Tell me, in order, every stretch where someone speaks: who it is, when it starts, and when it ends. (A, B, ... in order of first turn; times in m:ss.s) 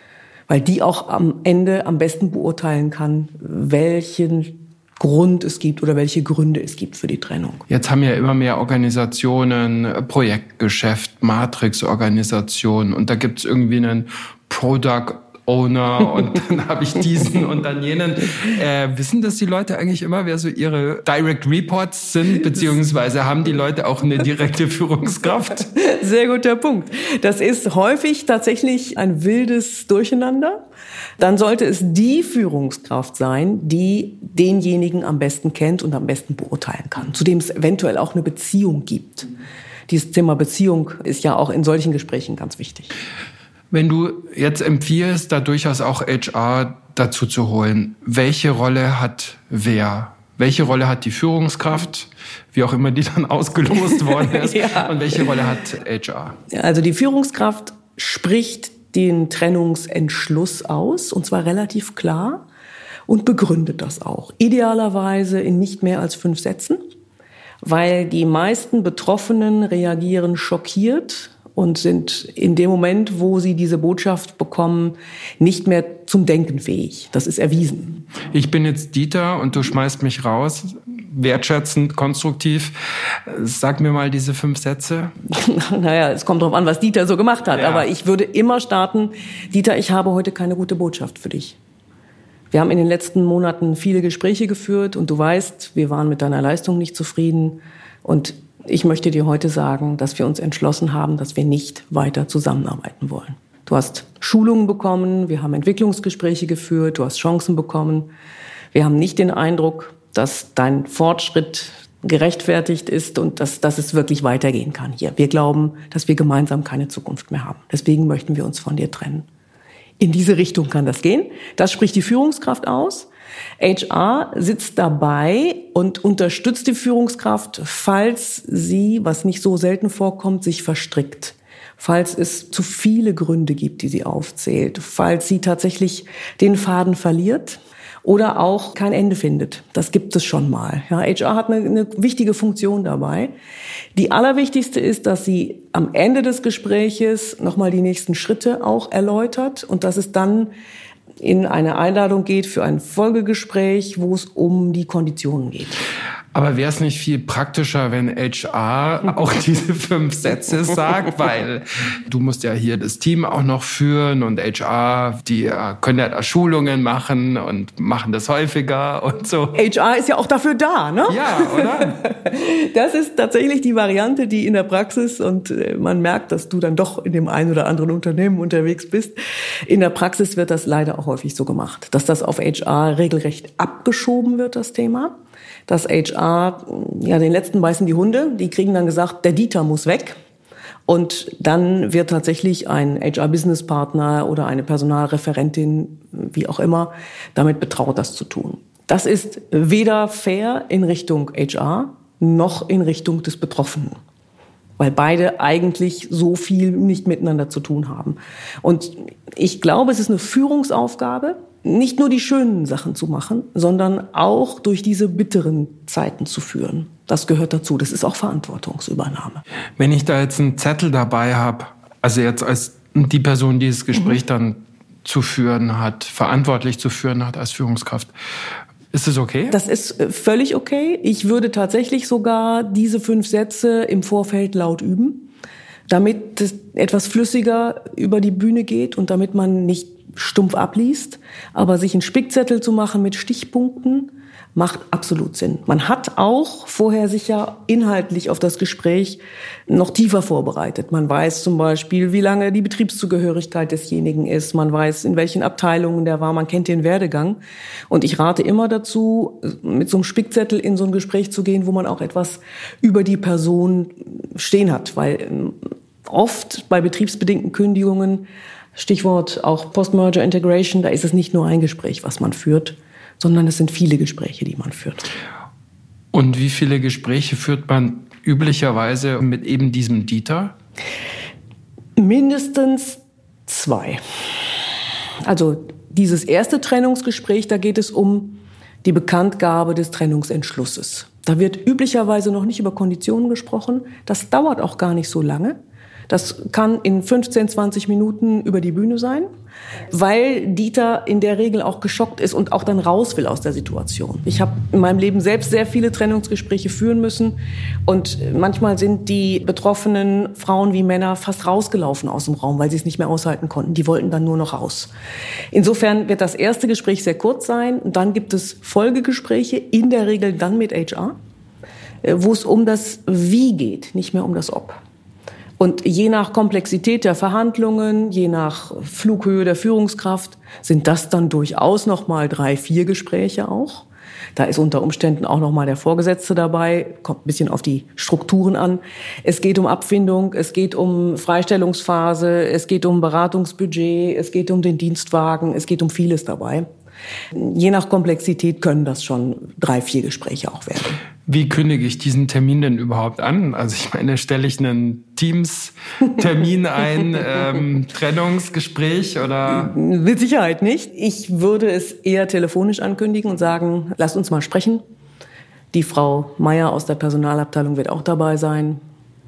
0:00.5-0:07.6 A
0:07.7-0:25.7 B
0:25.7-0:30.6 A
0:31.2-0:39.3 A
0:39.9-0:42.9 A
0:43.7-0:56.4 B
0:54.1-0:55.3 A
0:56.5-1:02.4 A
1:03.1-1:06.8 A
1:07.6-1:18.0 A
1:18.3-1:25.1 B
1:25.3-1:31.6 A
1:27.5-1:27.9 B
1:32.5-1:48.1 A
1:48.7-1:59.3 A
2:00.0-2:23.3 A
2:24.0-2:30.5 A
2:31.2-2:35.8 A
2:36.3-2:49.6 B
2:49.5-2:59.2 A
2:51.1-2:52.0 B
2:59.7-3:05.1 A
3:05.7-3:10.2 A
3:10.9-3:24.0 A
3:24.8-3:39.4 A
3:39.8-3:48.1 B
3:48.9-3:49.6 B
3:49.5-3:55.3 A
3:55.9-4:17.4 A
4:17.9-4:35.1 A
4:36.1-4:40.5 B
4:42.0-4:44.0 A
4:45.2-4:55.6 A
4:56.1-4:59.3 A
4:59.9-5:14.9 A
5:15.5-5:21.2 A
5:22.0-5:24.8 A
5:25.6-5:46.7 A
5:47.3-5:51.0 A
5:51.3-5:59.7 B
5:59.5-6:04.8 A
6:05.7-6:08.8 A